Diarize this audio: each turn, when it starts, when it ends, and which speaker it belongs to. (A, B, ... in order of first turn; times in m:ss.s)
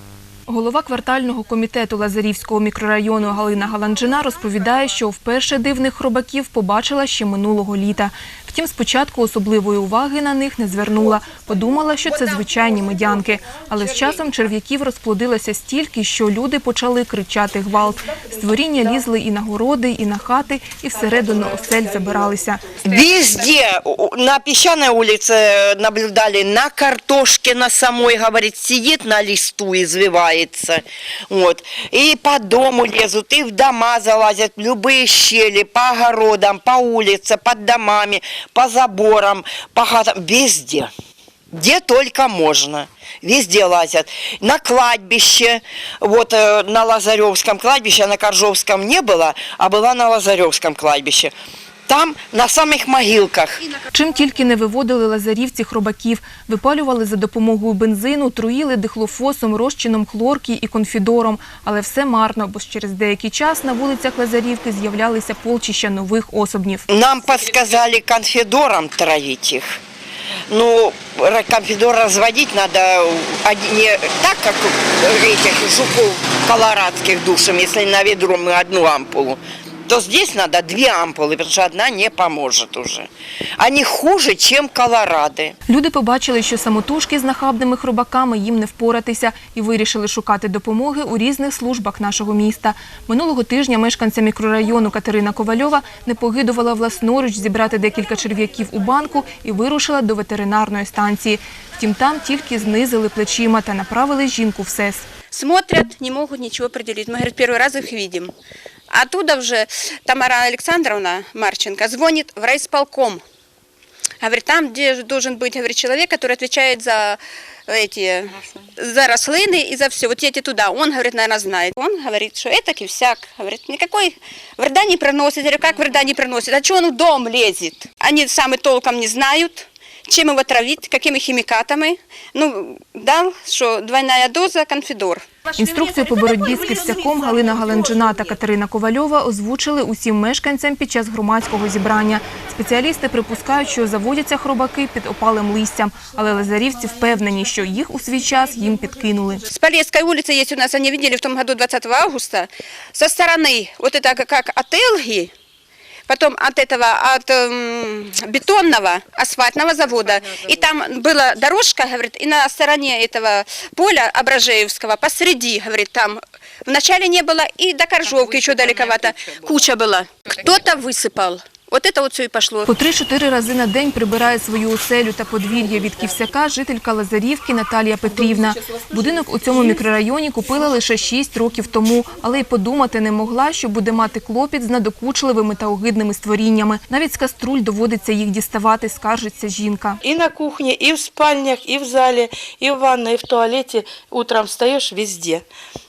0:00.5-0:22.7 A
0:22.8-0:40.9 B
0:41.5-0:51.3 B
0:51.9-0:53.6 B
0:53.9-1:06.8 A
1:06.9-1:09.8 B
1:10.5-1:25.5 B
1:25.7-1:45.1 A
1:45.3-1:48.3 C
1:48.9-1:53.2 C
1:54.2-2:15.3 C
2:15.6-2:29.4 A
2:29.5-2:35.3 C
2:36.1-2:52.7 C
2:52.7-3:10.0 A
3:10.0-3:15.4 D